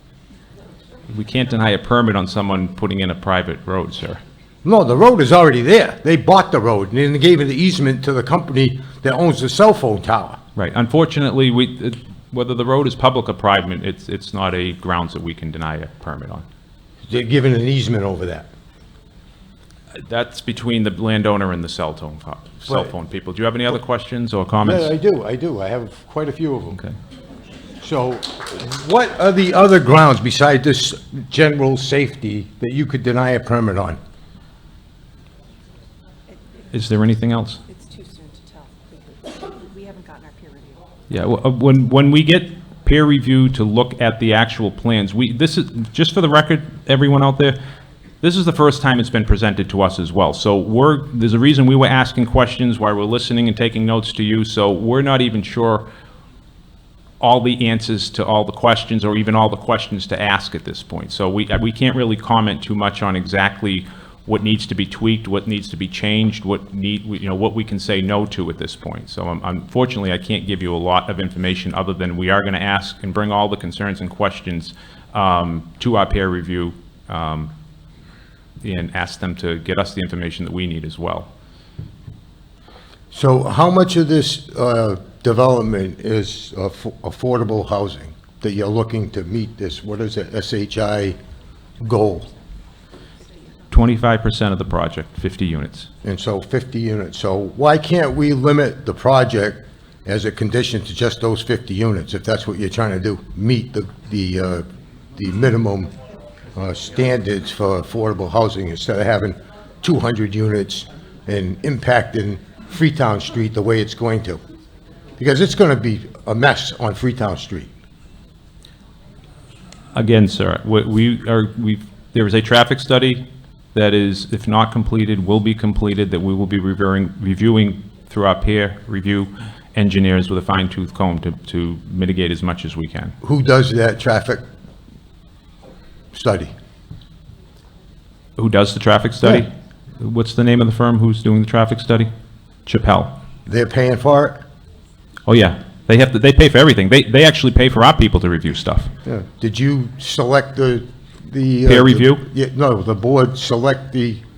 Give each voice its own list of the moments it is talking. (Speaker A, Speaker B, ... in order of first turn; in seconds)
Speaker A: 1.1-4.2, 10.6-16.4, 20.0-24.9, 36.7-37.6, 41.1-47.6, 48.2-55.9, 57.2-77.5, 78.6-81.3, 93.7-95.9, 119.9-123.2, 123.7-133.1, 138.4-142.1, 142.7-143.2, 145.3-148.9, 151.7-152.2
Speaker B: 4.6-10.4, 17.1-18.5, 24.6-26.8, 27.8-34.0, 83.1-91.2, 91.8-92.3, 96.0-104.6, 105.2-105.9, 106.5-114.4, 115.2-117.7, 133.2-134.4, 136.1-136.5, 143.4-144.4, 149.0-154.2
Speaker C: 37.7-40.8